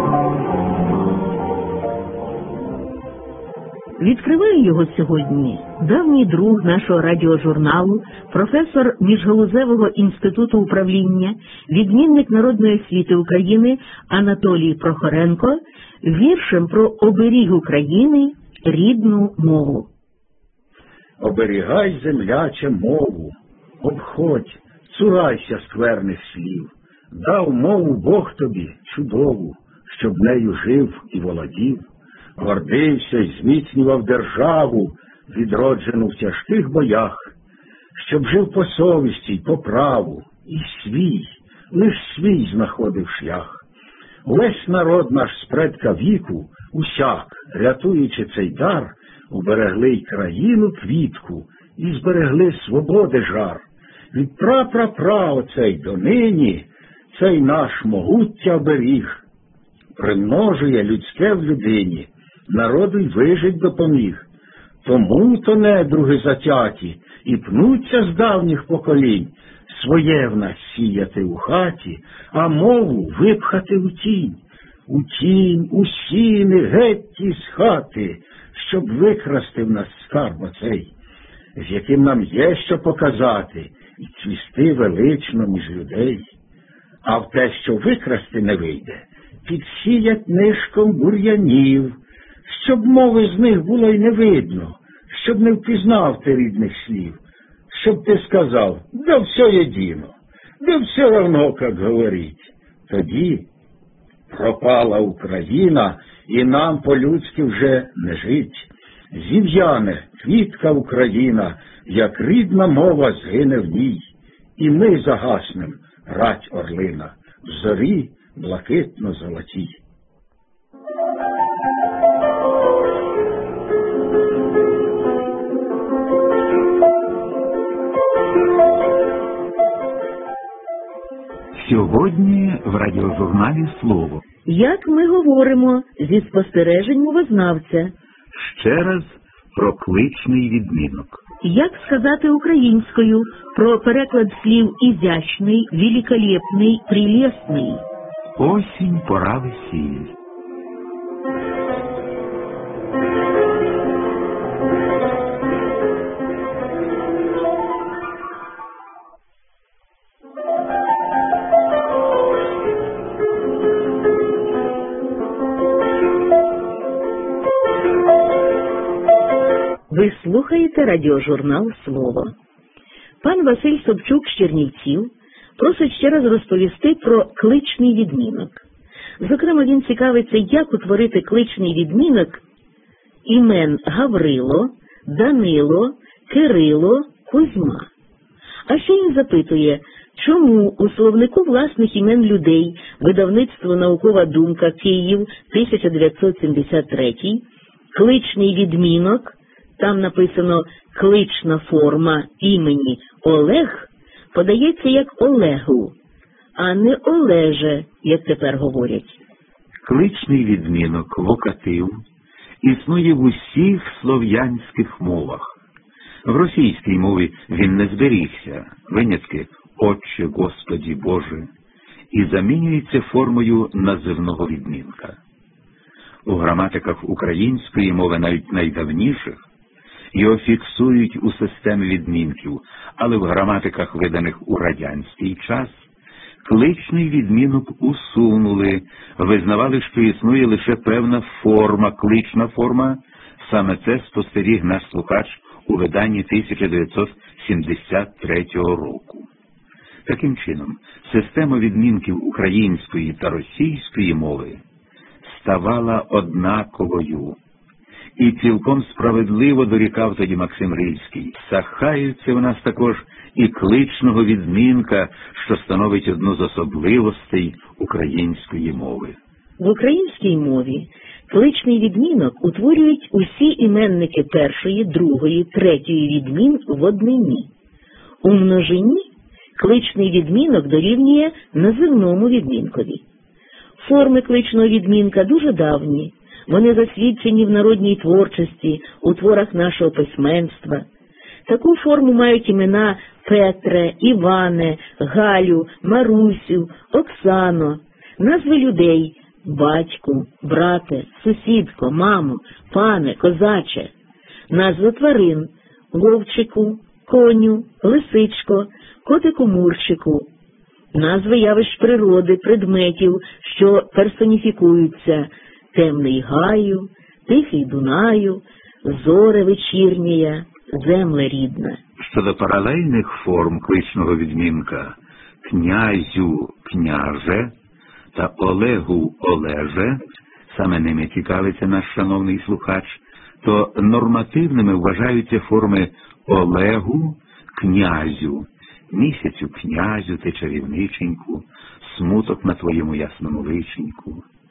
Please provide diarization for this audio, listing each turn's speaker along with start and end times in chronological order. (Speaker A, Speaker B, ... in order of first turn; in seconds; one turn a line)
Speaker A: 4.0-19.9
Speaker B: 21.2-23.3
Speaker C: 21.4-23.3
Speaker C: 23.8-26.6
Speaker B: 23.8-26.7
Speaker B: 27.2-29.4
Speaker C: 27.3-31.8
Speaker B: 29.9-31.8
Speaker C: 32.4-36.7
Speaker B: 32.4-34.5
Speaker B: 35.3-37.2
Speaker B: 38.0-38.5
Speaker C: 38.0-43.5
Speaker B: 39.5-41.2
Speaker B: 41.7-42.5
Speaker C: 44.3-53.6
Speaker B: 44.3-48.5
Speaker B: 49.3-53.6
Speaker C: 54.1-59.2
Speaker B: 54.2-56.6
Speaker C: 60.0-64.2
Speaker B: 60.2-61.8
Speaker B: 62.7-63.1
Speaker B: 64.8-65.8
Speaker C: 64.9-69.3
Speaker B: 67.0-68.7
Speaker B: 69.8-72.0
Speaker C: 69.8-74.3
Speaker B: 73.1-74.2
Speaker C: 74.9-80.9
Speaker B: 77.4-77.8
Speaker B: 78.6-79.2
Speaker C: 81.6-86.2
Speaker B: 83.7-85.2
Speaker C: 87.1-91.9
Speaker B: 87.1-88.9
Speaker B: 89.5-91.4
Speaker C: 92.5-97.1
Speaker B: 92.6-94.7
Speaker B: 95.2-97.2
Speaker B: 97.7-98.2
Speaker C: 97.8-100.1
Speaker B: 98.9-100.1
Speaker C: 100.6-102.3
Speaker C: 102.9-103.5
Speaker C: 104.4-114.0
Speaker B: 112.1-112.5
Speaker C: 114.6-119.7
Speaker B: 131.6-134.2
Speaker A: 134.5-137.9
Speaker B: 138.3-141.2
Speaker A: 141.4-147.8
Speaker B: 148.4-150.1
Speaker A: 169.9-172.3
Speaker A: 173.2-178.6
Speaker A: 179.2-182.4
Speaker A: 183.3-187.9
Speaker A: 188.7-205.9
Speaker A: 206.6-209.2
Speaker B: 209.8-212.0
Speaker B: 212.6-215.5
Speaker B: 216.2-221.5
Speaker B: 222.1-225.2
Speaker B: 226.3-229.4
Speaker B: 230.1-235.9
Speaker B: 236.4-249.3
Speaker B: 250.1-254.6
Speaker B: 255.2-257.4
Speaker B: 258.2-269.2
Speaker A: 269.6-277.5
Speaker A: 278.2-279.1
Speaker A: 279.6-283.0
Speaker A: 283.8-290.9
Speaker A: 291.5-303.9
Speaker A: 304.5-310.3
Speaker A: 310.9-321.8
Speaker B: 322.0-327.5
Speaker B: 328.1-344.2